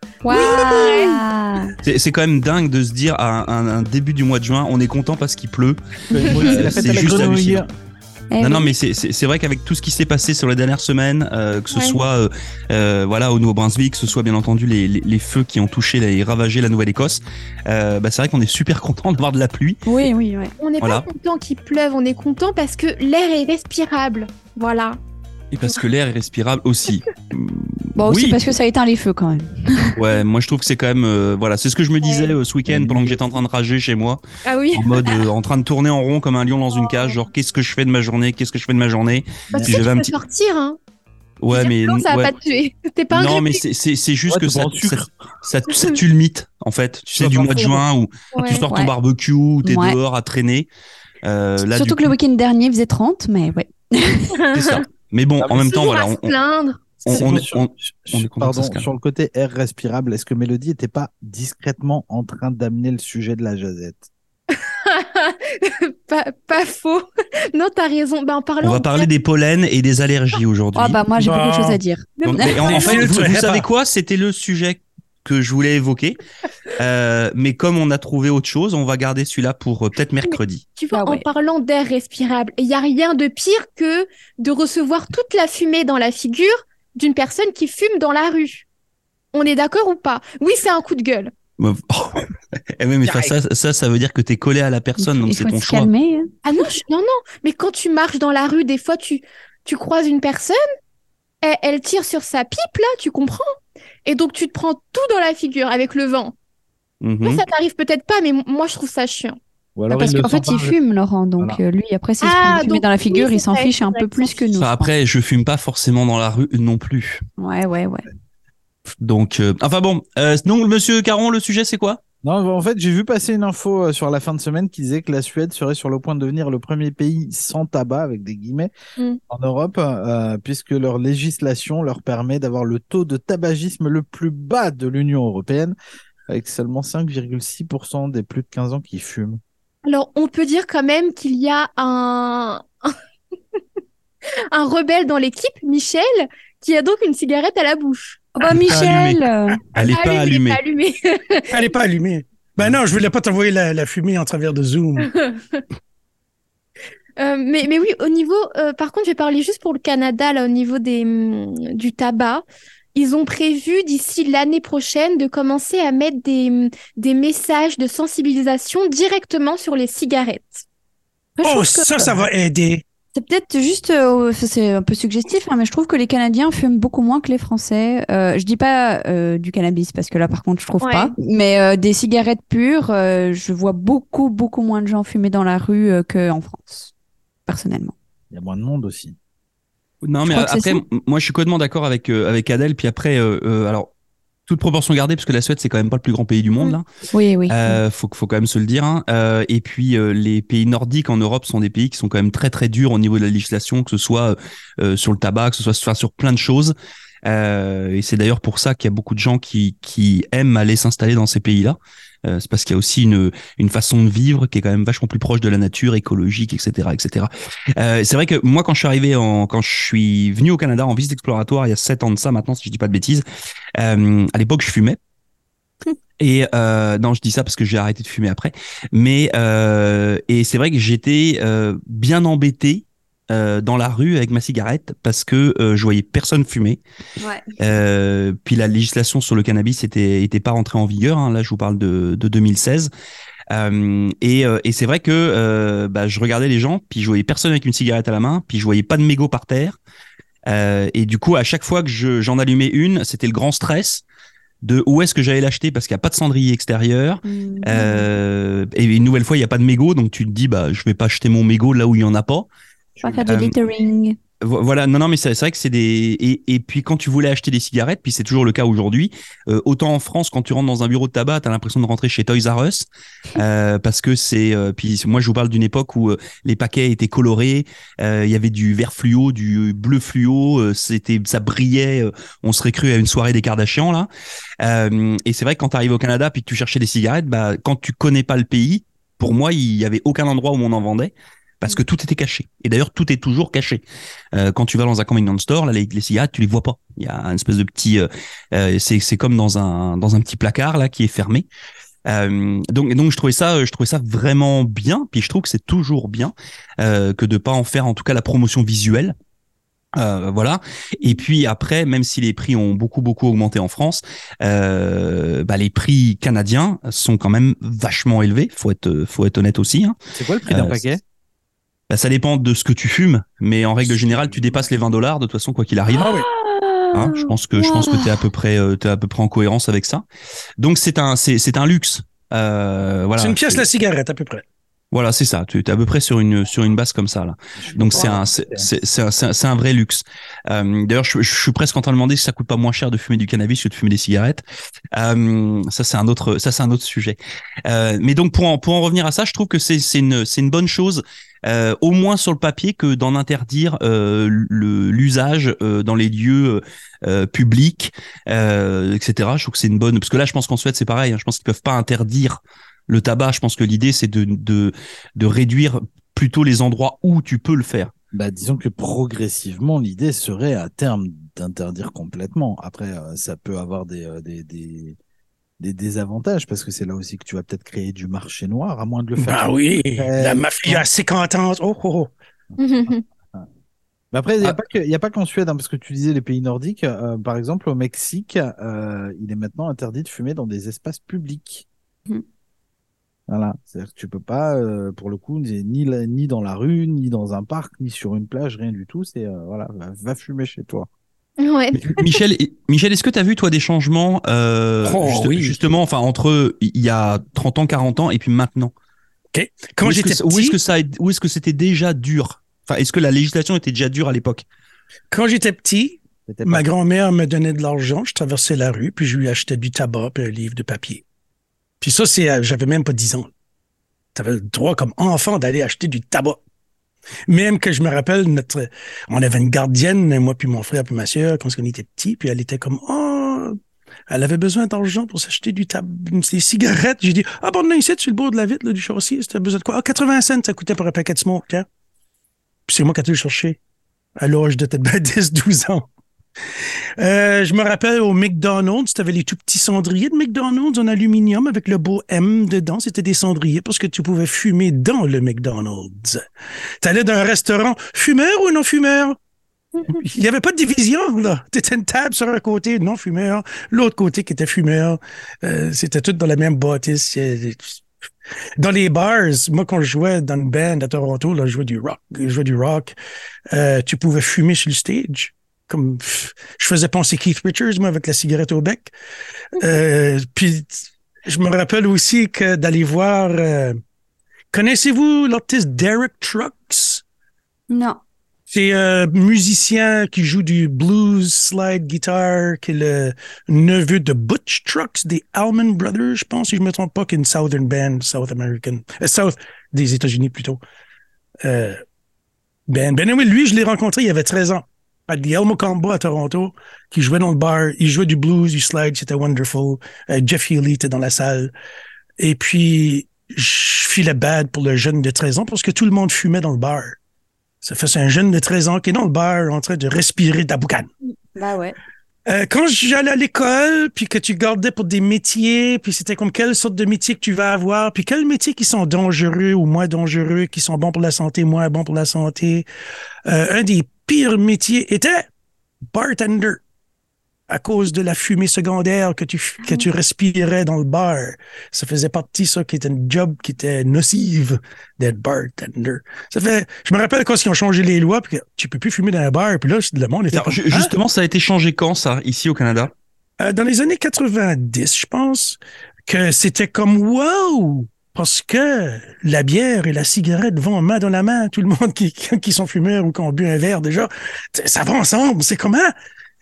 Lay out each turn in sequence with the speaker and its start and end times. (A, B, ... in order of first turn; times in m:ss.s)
0:00.2-0:01.2 A
0:00.2-0:01.8 B
0:01.8-0:07.6 C
0:06.1-0:07.7 D
0:06.4-0:06.8 B
0:08.3-0:08.7 B
0:08.4-0:19.9 C
0:11.7-0:12.0 A
0:19.9-0:20.6 B
0:20.6-0:25.0 A
0:20.8-0:21.1 C
0:25.5-0:28.4 C
0:28.0-0:30.0 B
0:30.0-0:34.2 C
0:32.0-0:32.4 A
0:32.7-0:33.2 D
0:34.4-0:35.3 A
0:34.7-0:40.1 C
0:36.8-0:37.1 A
0:39.5-0:39.8 D
0:39.5-0:40.8 A
0:41.4-0:42.4 C
0:41.5-0:43.6 A
0:43.1-0:50.7 C
0:44.3-0:45.1 D
0:45.7-0:46.0 A
0:47.1-0:47.8 D
0:48.3-0:48.6 A
0:49.6-0:50.0 B
0:51.2-0:52.1 C
0:51.6-0:54.4 B
0:54.3-0:54.8 A
0:54.5-0:56.4 C
0:55.5-0:56.8 A
0:57.0-0:58.9 C
0:57.1-1:04.1 D
0:57.1-0:57.5 E
1:04.6-1:09.1 A
1:08.6-1:11.0 C
1:10.8-1:12.9 B
1:11.2-1:11.8 E
1:12.2-1:13.0 A
1:12.2-1:16.2 C
1:12.6-1:13.7 E
1:16.8-1:20.7 C
1:20.2-1:28.7 A
1:20.9-1:21.2 B
1:29.3-1:31.3 A
1:31.6-1:32.3 C
1:32.8-1:35.9 C
1:35.0-1:36.3 B
1:36.4-1:40.6 A
1:41.4-1:43.4 A
1:44.0-1:46.4 A
1:47.0-1:47.4 C
1:47.2-1:49.4 A
1:49.8-1:50.8 D
1:49.9-1:54.9 B
1:52.2-1:54.4 A
1:54.6-1:57.2 C
1:57.4-1:58.1 B
1:59.0-2:02.0 C
2:02.2-2:08.7 D
2:09.3-2:15.8 D
2:16.3-2:19.4 D
2:19.8-2:22.9 A
2:24.5-2:28.3 A
2:28.4-2:29.7 B
2:28.4-2:30.6 C
2:29.8-2:31.5 A
2:31.5-2:35.1 E
2:35.1-2:35.6 A
2:37.2-2:50.6 A
2:51.4-2:52.3 B
2:51.4-2:52.8 E
2:53.2-3:06.9 B
3:00.8-3:01.1 A
3:07.5-3:08.0 B
3:08.3-3:09.2 D
3:10.0-3:13.9 C
3:10.2-3:10.8 B
3:14.5-3:16.8 C
3:17.1-3:17.8 B
3:17.5-3:43.2 C
3:43.8-3:45.0 C
3:46.2-3:56.8 C
3:57.2-3:57.5 B
3:57.6-4:02.9 C
4:03.5-4:09.8 C
4:10.5-4:14.0 C
4:14.6-4:22.5 C
4:17.2-4:18.2 B
4:23.0-4:23.3 D
4:23.0-4:24.2 B
4:23.3-4:23.6 C
4:24.4-4:44.1 C
4:44.6-4:53.8 C
4:54.3-5:01.5 C
5:02.1-5:09.2 C
5:09.9-5:20.0 C
5:20.2-5:21.0 D
5:20.5-5:20.8 C
5:21.9-5:26.1 C
5:24.3-5:24.6 D
5:26.0-5:26.3 E
5:26.4-5:26.9 B
5:26.9-5:30.0 C
5:27.6-5:28.2 B
5:30.6-5:33.7 C
5:33.2-5:34.4 E
5:34.9-5:44.4 C
5:37.6-5:38.7 D
5:44.9-6:07.9 C
6:08.1-6:15.0 D
6:15.6-6:20.9 D
6:19.2-6:22.1 E
6:22.5-6:23.5 D
6:22.6-6:23.0 A
6:24.1-6:31.7 D
6:33.3-6:40.9 D
6:41.4-6:42.2 A
6:41.7-6:48.7 C
6:44.8-6:45.6 E
6:49.3-6:50.6 E
6:49.8-6:54.4 C
6:55.1-7:01.0 E
6:56.3-6:56.7 D
7:01.8-7:03.3 E
7:04.2-7:06.4 E
7:07.3-7:13.6 E
7:14.1-7:21.7 E
7:22.7-7:23.6 E
7:24.2-7:25.9 E
7:27.0-7:36.2 E
7:36.8-7:39.2 E
7:39.7-7:40.0 A
7:39.9-7:47.8 E
7:48.6-7:53.0 E
7:53.5-7:58.9 E
7:59.6-8:03.8 E
8:04.5-8:07.0 E
8:07.7-8:08.0 B
8:08.5-8:20.6 E
8:21.4-8:21.8 E
8:22.7-8:31.5 E
8:32.2-8:37.0 E
8:37.6-8:40.9 E
8:41.4-8:41.8 B
8:42.3-8:52.7 E
8:53.3-8:55.3 E
8:55.9-8:56.6 E
8:57.5-9:10.9 E
9:10.3-9:12.9 C
9:13.4-9:25.9 E